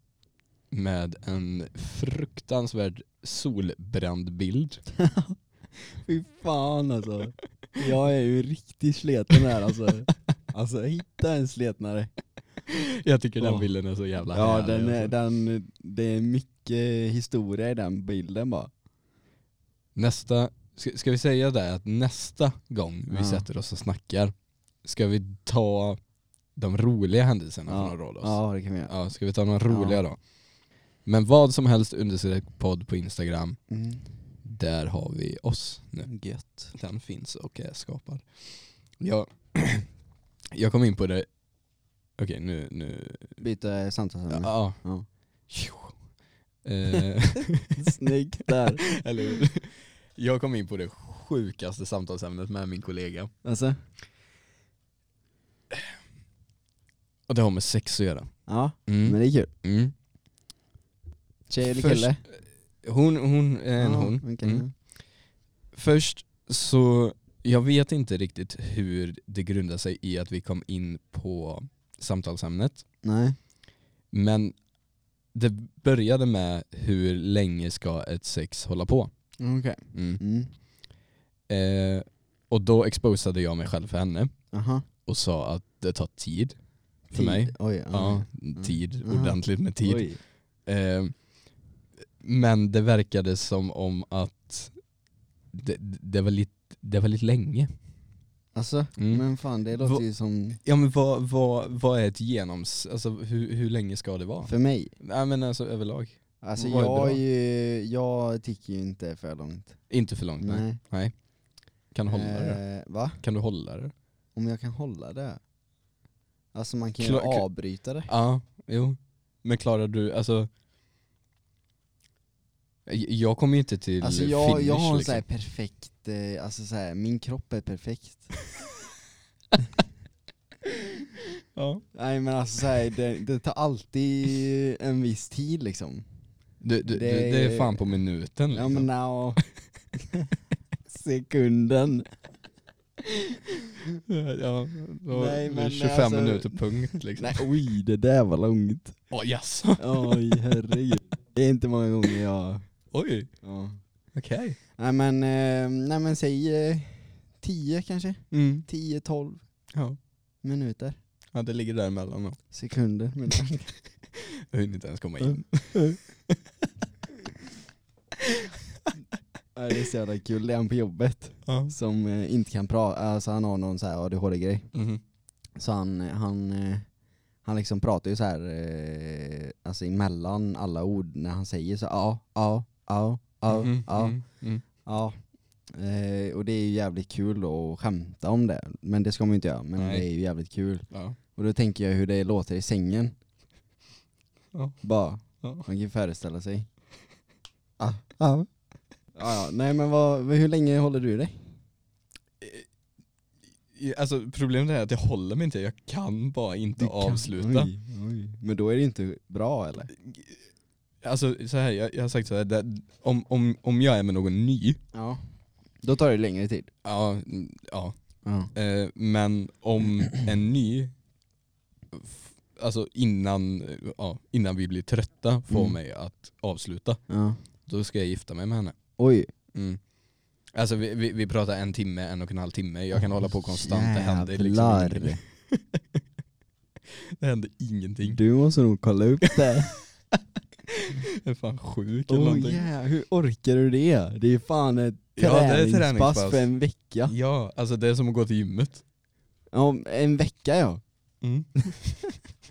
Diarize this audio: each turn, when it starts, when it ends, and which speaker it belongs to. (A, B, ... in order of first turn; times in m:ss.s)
0:00.7-0:04.8 A
0:05.0-0:12.1 B
0:12.7-0:15.1 A
0:13.4-0:13.7 B
0:14.3-0:18.7 B
0:20.0-0:26.0 A
0:23.1-0:23.5 B
0:26.6-0:30.2 A
0:27.7-0:28.9 B
0:29.7-0:30.0 B
0:31.0-0:33.6 A
0:33.7-0:34.1 B
0:34.4-0:36.1 A
0:36.0-0:36.7 B
0:36.7-0:39.9 A
0:40.5-0:41.3 A
0:42.2-0:43.4 A
0:43.4-0:45.1 B
0:44.3-0:44.8 A
0:45.5-0:46.0 A
0:46.6-0:47.8 A
0:47.8-0:48.9 B
0:48.6-0:53.3 A
0:53.4-0:53.8 B
0:57.3-0:58.4 A
0:58.5-0:59.5 B
0:58.9-0:59.9 A
1:01.5-1:02.2 B
1:01.6-1:04.9 A
1:03.8-1:04.7 B
1:05.7-1:12.8 A
1:13.0-1:13.4 B
1:14.1-1:14.6 A
1:15.3-1:19.1 A
1:19.4-1:20.5 B
1:19.9-1:20.2 A
1:21.5-1:24.4 A
1:24.5-1:24.8 B
1:25.0-1:26.6 A
1:27.1-1:30.1 A
1:27.1-1:30.2 B
1:30.6-1:31.3 A
1:32.2-1:34.8 A
1:35.5-1:37.7 A
1:38.5-1:40.6 B
1:39.0-1:39.2 A
1:39.8-1:40.0 A
1:40.6-1:47.2 A
1:44.4-1:44.9 B
1:46.4-1:49.8 B
1:49.9-1:51.2 A
1:50.4-1:50.8 B
1:51.9-1:52.6 A
1:52.1-1:53.2 B
1:53.2-1:53.9 A
1:54.4-1:55.4 B
1:56.5-1:58.1 B
1:57.0-1:57.5 A
1:58.1-2:00.5 A
2:02.9-2:05.2 A
2:04.0-2:08.4 B
2:11.6-2:11.8 A
2:11.9-2:16.1 B
2:16.6-2:18.9 A
2:16.9-2:17.9 B
2:18.5-2:19.4 B
2:20.9-2:22.1 B
2:24.1-2:27.5 A
2:25.1-2:29.0 B
2:29.1-2:30.6 A
2:29.8-2:32.6 B
2:32.9-2:33.3 A
2:33.4-2:33.8 B
2:34.1-2:34.6 A
2:34.8-2:39.4 B
2:38.3-2:38.7 A
2:39.7-2:40.0 A
2:40.4-2:41.0 B
2:41.3-2:42.4 A
2:42.5-2:43.7 B
2:44.1-2:46.4 A
2:49.6-2:54.7 B
2:51.5-2:51.7 A
2:54.7-2:55.0 A
2:55.6-2:56.9 B
2:57.4-3:04.2 B
3:03.5-3:04.6 A
3:04.8-3:05.2 B
3:05.7-3:13.2 B
3:09.8-3:10.1 A
3:10.9-3:11.2 A
3:14.5-3:14.8 A
3:14.8-3:16.7 B
3:15.4-3:15.7 A
3:17.8-3:18.5 B
3:19.2-3:21.5 B
3:22.4-3:22.7 A
3:23.7-3:27.7 A
3:26.8-3:29.9 B
3:30.0-3:30.4 A
3:31.0-3:34.8 A
3:34.9-3:35.2 B
3:35.8-3:36.7 B
3:36.8-3:38.0 A
3:38.2-3:38.5 B
3:38.5-3:41.0 A
3:41.9-3:47.0 A
3:45.5-3:45.8 B
3:47.1-3:47.4 B
3:47.7-3:48.8 A
3:49.0-3:49.3 B
3:49.5-3:49.8 A
3:50.5-3:56.0 A
3:52.9-3:55.2 B
3:56.9-3:58.2 A
3:58.0-3:59.7 B
3:59.3-4:02.7 A
4:02.1-4:07.1 B
4:05.2-4:06.5 A
4:07.1-4:08.8 A
4:09.5-4:10.8 B
4:11.2-4:11.5 A